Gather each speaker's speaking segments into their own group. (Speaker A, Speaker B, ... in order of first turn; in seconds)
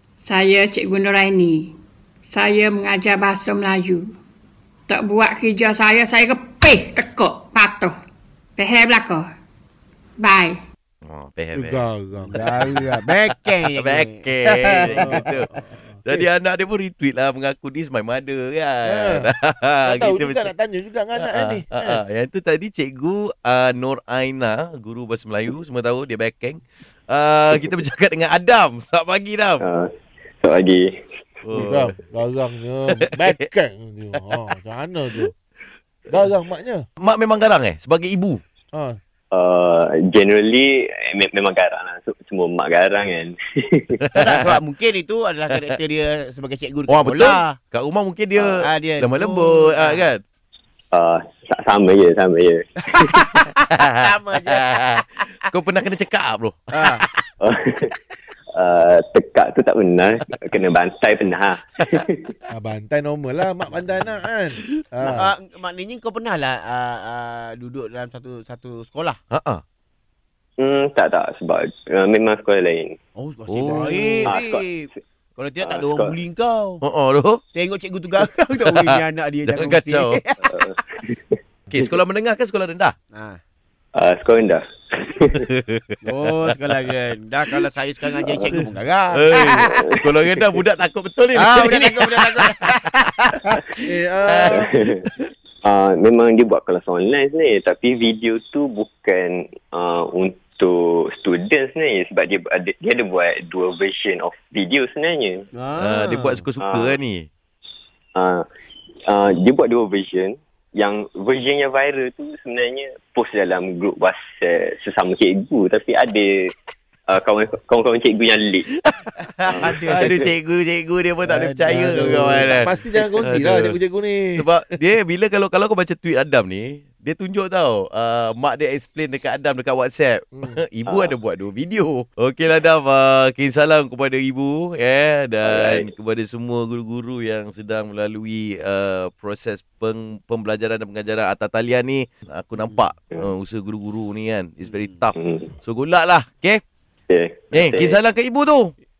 Speaker A: 0.2-1.7, 2.3-4.1, 4.9-7.9, 8.6-9.3, 10.2-10.6
Speaker B: 11.0-11.8, 13.7-15.5, 16.0-20.5, 21.2-29.6, 31.4-31.9, 37.0-38.4, 44.0-44.4, 46.9-50.2, 53.7-57.2, 69.3-69.6, 73.5-74.3, 76.8-77.4, 78.6-80.2, 81.7-82.9, 85.5-86.5, 88.5-92.7, 94.3-95.3, 105.8-107.3, 119.6-122.7, 123.2-123.8, 124.4-146.6, 147.5-148.7
Speaker C: 11.5-12.8, 18.8-19.3, 19.8-22.0, 31.5-35.3, 36.1-36.8, 38.7-39.0, 62.5-65.3, 93.8-94.7, 121.8-124.5, 130.3-130.6
Speaker D: 12.2-15.7, 44.1-47.6, 48.3-50.1, 53.3-55.0, 56.7-57.0, 65.0-69.2, 73.2-76.8, 77.5-80.5, 83.1-83.4, 86.0-90.0, 91.3-93.6, 105.5-106.4, 119.2-120.1, 121.2-122.6
Speaker E: 29.6-30.9, 39.3-44.0, 50.9-53.4, 57.4-57.9, 58.5-62.3, 70.6-73.0, 73.6-74.7, 75.6-76.1, 80.4-81.3, 84.0-85.5, 89.7-90.4, 94.5-95.0, 95.6-105.5, 106.6-107.0, 108.2-108.4, 109.1-116.5, 117.1-118.7, 119.4-120.3, 130.8-131.1, 135.4-135.9, 145.2-145.5, 147.1-148.0